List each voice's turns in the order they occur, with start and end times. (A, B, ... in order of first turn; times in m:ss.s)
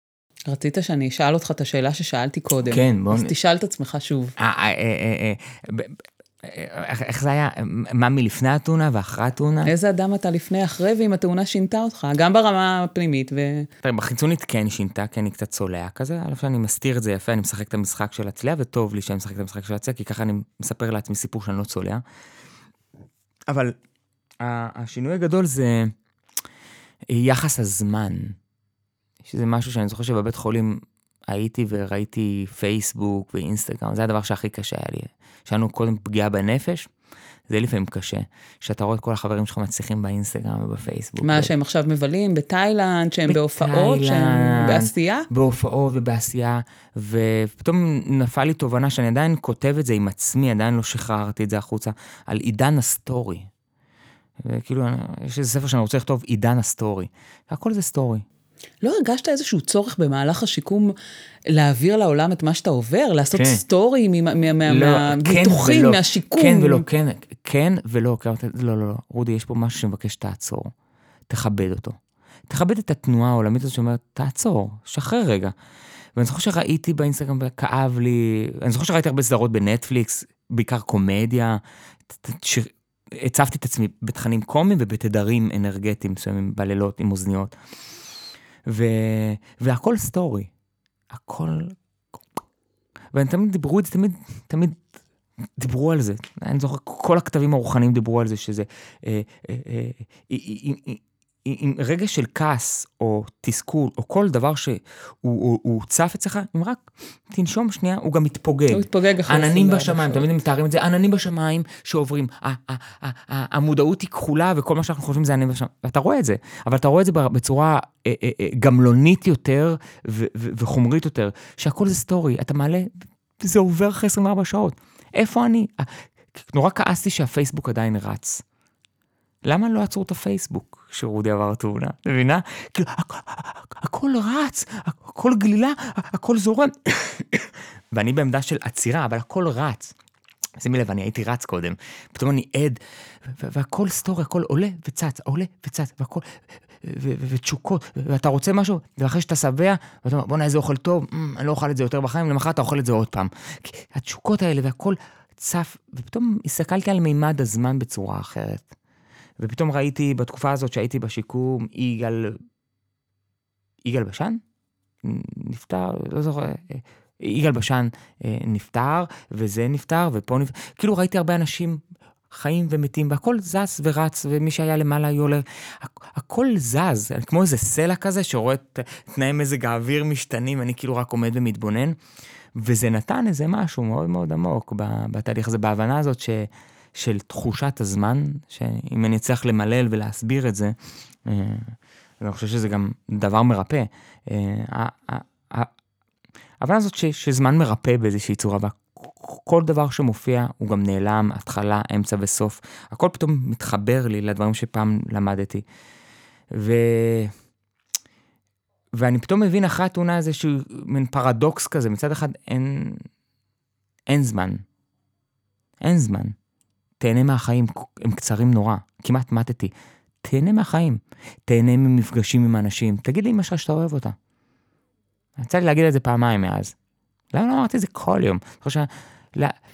0:00.5-0:04.3 A
0:02.7-0:03.3 B
0:04.4-0:09.7 B
0:09.6-0:13.7 A
0:13.8-0:22.0 B
0:23.5-0:23.8 B
0:24.4-0:25.9 B
0:27.1-0:28.4 B
0:29.2-0:36.9 B
0:37.5-0:41.5 B
0:41.2-0:45.3 A
0:43.3-0:53.5 B
0:54.4-0:58.2 B
0:58.8-1:00.9 A
1:01.5-1:06.8 A
1:03.3-1:03.6 B
1:04.6-1:10.7 B
1:11.3-1:15.5 B
1:16.2-1:27.5 B
1:28.6-1:30.5 B
1:31.1-1:32.4 B
1:33.1-1:34.8 B
1:35.6-2:08.4 B
1:48.7-1:50.3 A
2:09.4-2:19.9 B
2:20.6-2:38.7 B
2:39.4-2:42.4 B
2:43.8-2:44.4 B
2:45.0-3:02.0 B
3:02.5-3:15.7 B
3:16.6-3:25.6 B
3:26.5-3:27.3 B
3:28.9-3:33.1 B
3:34.1-3:34.6 B
3:35.8-3:36.4 B
3:37.0-3:44.2 B
3:45.4-3:46.7 B
3:47.3-3:49.6 B